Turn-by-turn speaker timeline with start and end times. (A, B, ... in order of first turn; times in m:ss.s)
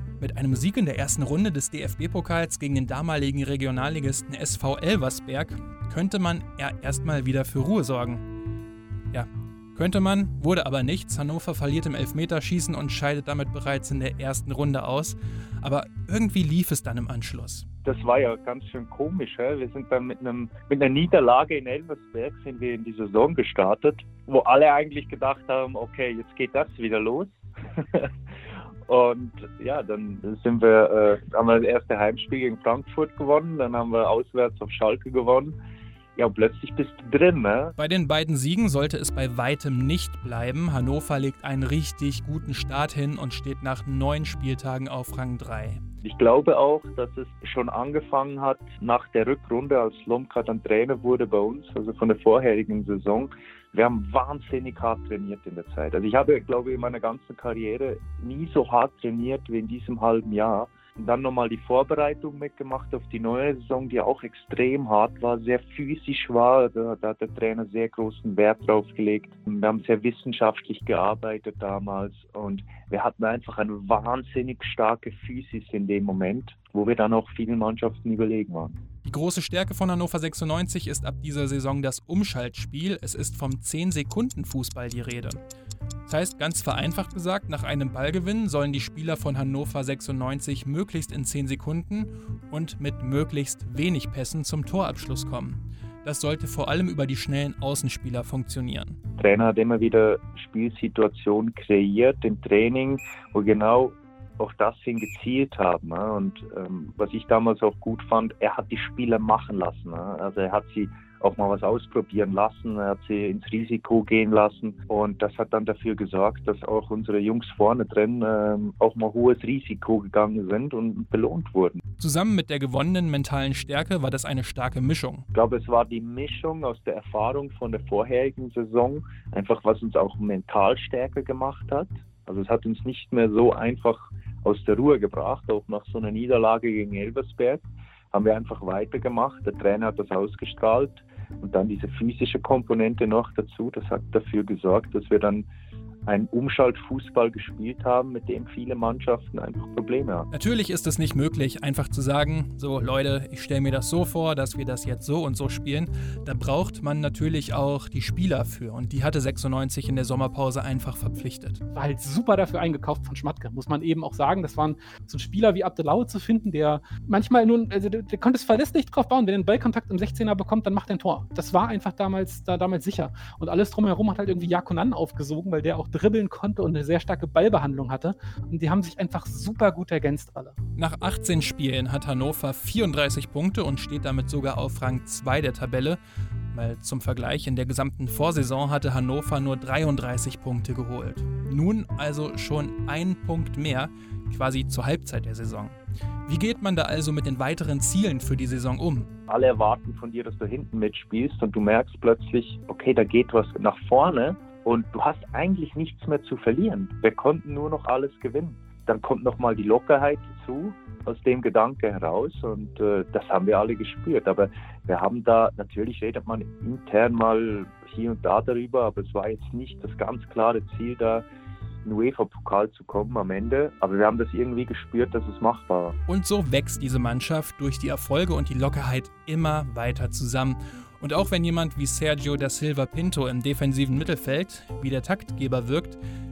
0:00.2-0:08.2 A
0:09.1-0:17.6 A
0:17.8-0:28.1 B
0:28.9-0:35.6 B
0:36.2-0:37.8 B
0:37.8-0:45.8 A
0:46.0-1:18.8 B
1:19.0-1:25.4 A
1:26.1-1:39.0 A
1:39.2-2:01.8 B
2:02.0-2:05.3 A
2:05.3-2:25.4 B
2:26.0-2:30.3 B
2:30.3-2:41.6 A
2:41.7-3:00.6 C
3:00.8-3:06.0 A
3:06.5-3:19.1 A
3:19.3-3:41.2 B
3:41.8-3:46.0 B
3:46.1-3:56.0 A